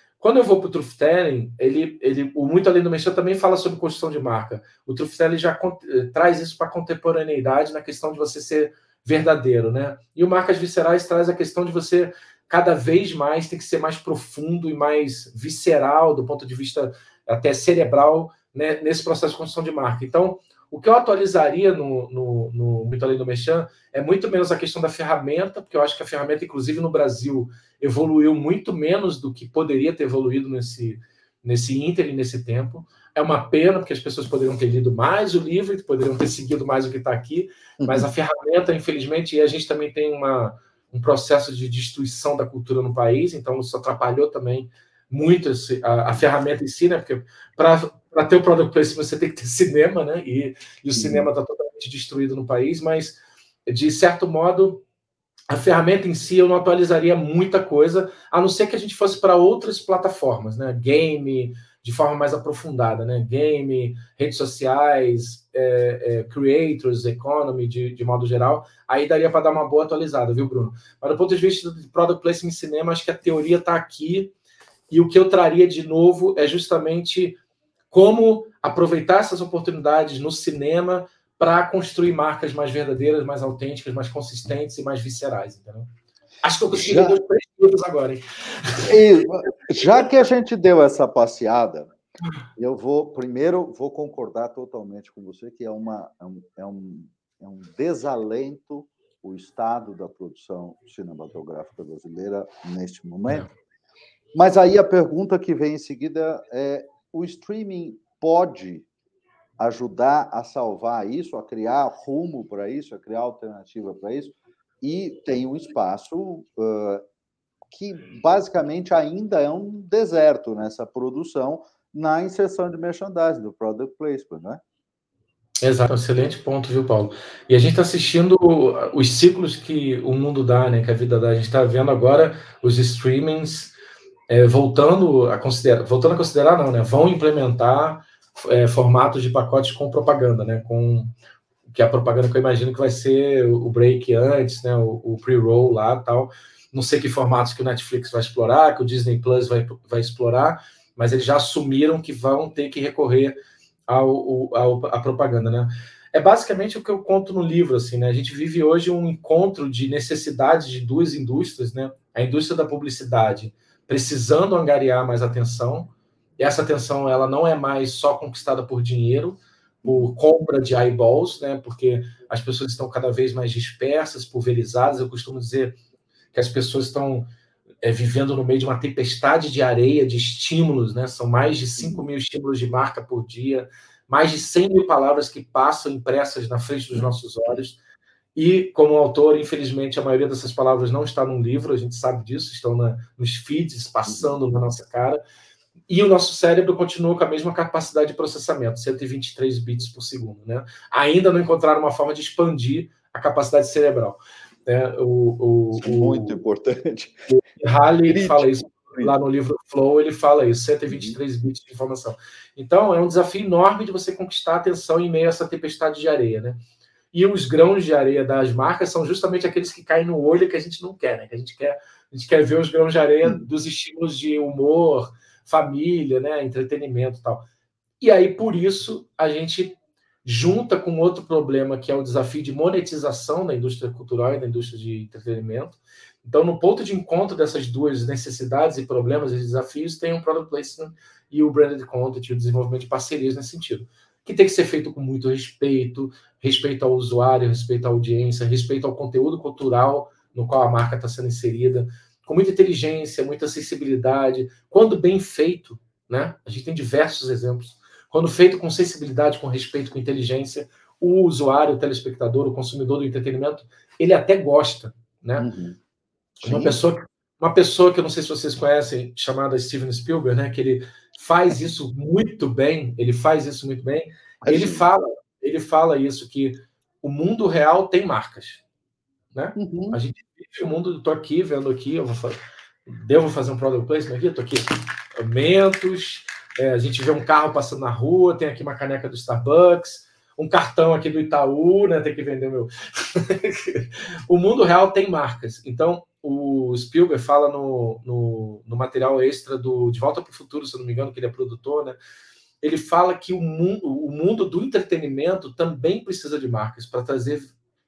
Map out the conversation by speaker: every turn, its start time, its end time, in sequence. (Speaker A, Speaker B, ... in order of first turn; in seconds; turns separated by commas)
Speaker A: 0.2-54.8, Speaker B: 37.8-38.1, Speaker B: 51.0-51.3, Speaker A: 55.5-74.3, Speaker A: 74.9-77.4, Speaker A: 77.9-85.9, Speaker A: 86.4-88.9, Speaker B: 86.7-87.2, Speaker B: 88.9-91.9, Speaker B: 92.6-103.5, Speaker B: 104.3-108.9, Speaker B: 109.6-117.0, Speaker B: 117.7-124.6, Speaker A: 125.6-133.7, Speaker A: 134.3-141.1, Speaker A: 141.7-153.4, Speaker A: 153.9-175.8, Speaker B: 169.8-170.1, Speaker A: 176.3-177.3, Speaker A: 177.8-187.8, Speaker B: 181.8-182.0, Speaker A: 188.3-195.2, Speaker B: 194.1-194.4, Speaker A: 195.9-206.4, Speaker B: 205.8-207.2, Speaker A: 207.3-216.6, Speaker B: 208.1-209.2, Speaker B: 210.9-211.2, Speaker A: 217.1-227.4, Speaker A: 228.0-265.5, Speaker B: 265.4-265.8, Speaker B: 266.4-266.8, Speaker A: 266.4-278.6, Speaker B: 274.4-274.9, Speaker A: 279.3-302.0, Speaker B: 279.6-280.0, Speaker A: 302.6-307.5